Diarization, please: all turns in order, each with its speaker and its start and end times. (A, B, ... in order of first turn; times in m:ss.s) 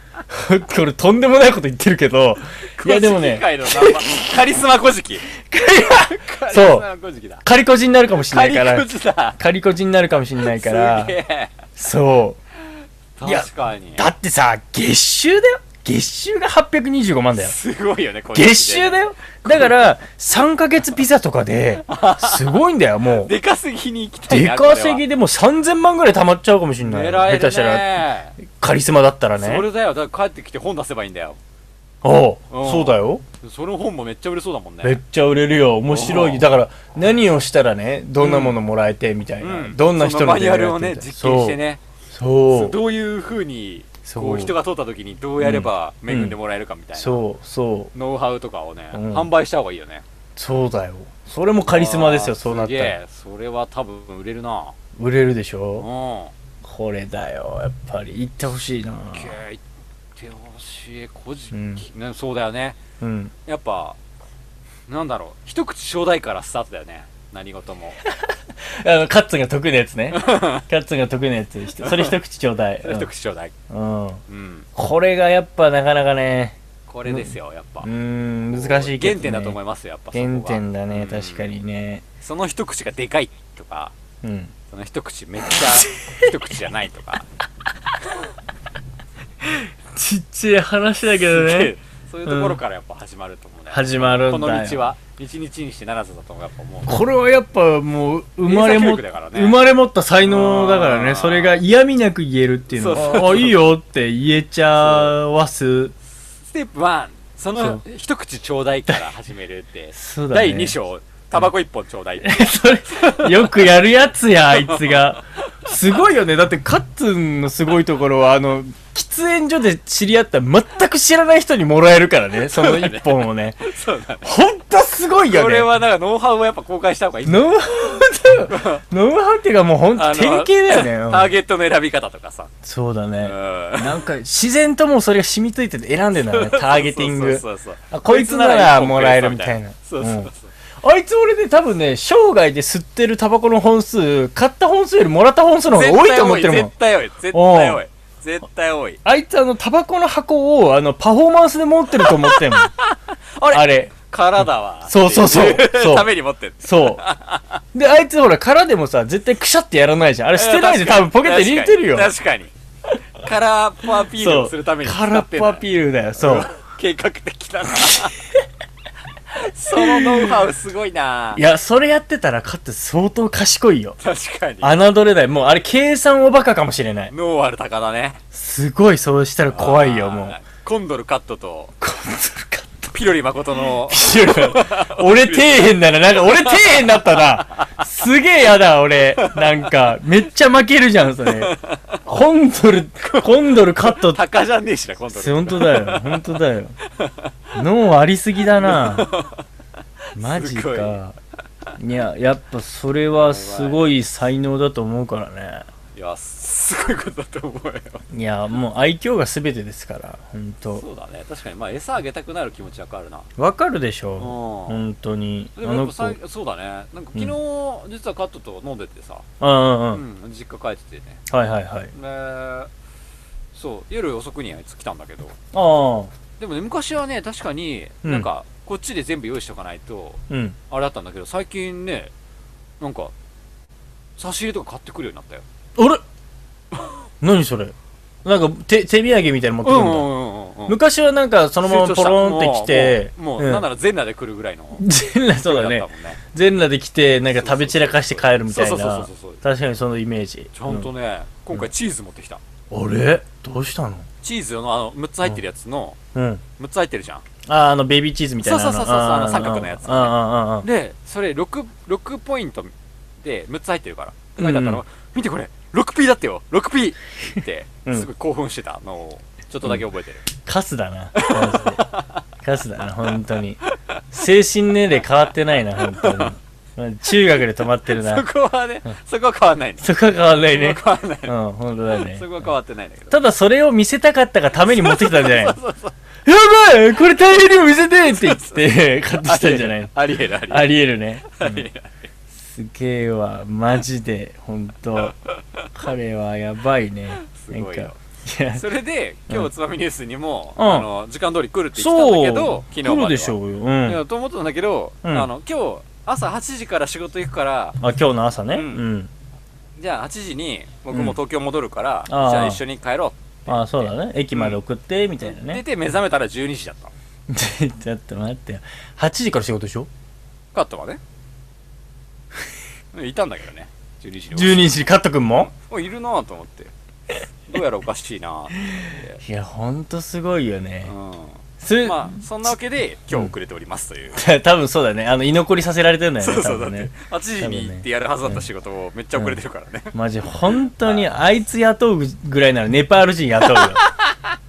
0:00.3-0:04.2 A
0:02.8-0:07.4 B
0:05.4-0:06.8 A
0:07.4-0:11.2 A
0:08.3-0:09.4 B
0:10.4-0:11.5 B
0:11.8-0:12.4 A
0:13.2-0:14.1 B
0:13.2-0:17.5 A
0:17.4-0:19.8 B
0:18.3-0:23.3 A
0:21.8-0:22.6 B
0:23.2-0:25.0 B
0:24.3-0:27.9 A
0:26.8-0:28.4 B
0:28.5-0:29.7 A
0:29.4-0:31.4 B
0:32.0-0:33.2 A
0:32.5-0:35.0 B
0:34.8-0:41.6 A
0:35.9-0:36.4 B
0:38.2-0:38.6 B
0:39.4-0:41.8 B
0:42.1-0:42.8 A
0:42.5-0:47.2 B
0:44.0-0:44.5 A
0:45.4-0:46.4 A
0:47.0-0:47.9 A
0:47.9-0:50.0 B
0:48.9-0:49.3 A
0:50.4-0:53.0 A
0:51.7-0:54.8 B
0:55.0-0:55.9 A
0:55.8-0:56.3 B
0:56.6-0:59.4 A
0:59.1-0:59.6 B
1:00.2-1:02.8 B
1:01.5-1:01.8 A
1:03.0-1:03.3 A
1:03.5-1:04.0 B
1:04.9-1:08.0 B
1:08.1-1:13.1 A
1:10.1-1:10.6 B
1:11.8-1:12.2 B
1:12.8-1:13.5 B
1:13.7-1:14.2 A
1:14.3-1:14.7 B
1:14.8-1:19.6 A
1:16.9-1:17.9 B
1:18.5-1:21.5 B
1:20.1-1:22.0 A
1:22.2-1:23.9 B
1:24.2-1:24.5 A
1:24.7-1:27.3 B
1:25.5-1:26.3 A
1:29.4-1:31.7 A
1:31.2-1:37.0 B
1:32.3-1:32.6 A
1:33.7-1:34.9 A
1:36.9-1:45.9 A
1:38.4-1:39.6 B
1:40.2-1:41.6 B
1:42.7-1:43.6 B
1:44.8-1:45.2 B
1:46.4-1:53.6 B
1:47.6-1:47.8 A
1:50.0-1:50.8 A
1:52.2-2:03.6 A
1:54.6-1:55.0 B
2:02.5-2:04.3 B
2:04.2-2:05.7 A
2:05.3-2:08.8 B
2:07.3-2:11.3 A
2:10.0-2:12.5 B
2:12.6-2:20.3 A
2:13.2-2:14.0 B
2:16.2-2:20.5 B
2:20.8-2:26.7 A
2:25.7-2:29.0 B
2:27.3-2:27.8 A
2:29.0-2:32.7 A
2:32.0-2:37.6 B
2:33.5-2:36.1 A
2:36.6-2:37.0 A
2:37.7-2:42.1 A
2:40.4-2:42.5 B
2:43.2-2:48.2 B
2:44.1-2:46.5 A
2:49.4-2:51.4 B
2:49.7-2:50.5 A
2:51.4-2:54.0 A
2:54.0-2:54.8 B
2:54.6-2:57.1 A
2:57.1-2:58.2 B
2:58.3-3:00.4 A
2:59.5-3:01.7 B
3:01.8-3:02.9 A
3:02.9-3:07.8 B
3:03.9-3:11.6 A
3:09.2-3:09.6 B
3:11.3-3:12.0 B
3:12.1-3:14.2 A
3:13.0-3:16.4 B
3:15.1-3:16.8 A
3:16.9-3:17.3 B
3:17.5-3:19.1 A
3:18.6-3:19.4 B
3:20.1-3:21.0 B
3:20.2-3:21.2 A
3:21.8-3:25.7 A
3:23.1-3:24.0 B
3:26.0-3:28.0 B
3:28.1-3:30.8 A
3:30.7-3:33.3 B
3:33.4-3:36.2 A
3:34.2-3:34.8 B
3:35.6-3:39.2 B
3:39.4-3:40.0 A
3:39.9-3:41.2 B
3:41.3-3:41.9 A
3:41.9-3:42.7 B
3:43.5-3:45.4 B
3:45.5-3:46.1 A
3:46.4-3:52.1 B
3:50.3-3:50.6 A
3:52.8-3:53.1 B
3:54.2-3:55.4 B
3:55.8-3:56.0 A
3:57.2-3:57.7 A
3:58.2-4:00.1 A
3:59.6-4:00.8 B
4:00.7-4:03.7 A
4:01.6-4:04.9 B
4:04.8-4:10.9 A
4:05.4-4:06.2 B
4:07.3-4:09.4 B
4:10.5-4:12.4 B
4:12.7-4:14.1 A
4:14.2-4:16.0 B
4:16.1-4:16.4 A
4:16.6-4:17.2 B
4:17.5-4:20.7 A
4:18.4-4:30.2 B
4:24.4-4:24.8 A
4:30.4-4:31.9 A
4:31.2-4:32.2 B
4:32.4-4:33.6 A
4:34.1-4:38.2 A
4:35.9-4:36.3 B
4:37.9-4:41.4 B
4:39.8-4:42.3 A
4:41.9-4:43.2 B
4:43.1-4:45.6 A
4:44.7-4:46.0 B
4:46.2-4:49.9 A
4:48.1-4:48.6 B
4:49.2-4:52.1 B
4:50.5-4:51.7 A
4:52.4-4:55.2 A
4:55.8-4:58.6 A
4:57.2-4:58.0 B
4:58.5-5:07.8 B
5:00.6-5:00.9 A
5:01.8-5:04.0 A
5:05.0-5:05.3 A
5:07.8-5:09.1 A
5:08.5-5:08.8 B
5:09.8-5:14.6 B
5:10.9-5:11.2 A
5:12.1-5:12.6 A
5:13.5-5:15.6 A
5:15.2-5:16.9 B
5:17.3-5:19.9 A
5:20.5-5:21.0 B
5:22.9-5:26.7 B
5:24.3-5:25.5 A
5:27.5-5:29.2 B
5:29.2-5:30.9 A
5:30.8-5:34.2 B
5:31.6-5:32.5 A
5:34.2-5:38.4 A
5:36.2-5:40.0 B
5:39.9-5:43.8 A
5:40.8-5:41.1 B
5:43.5-5:44.2 B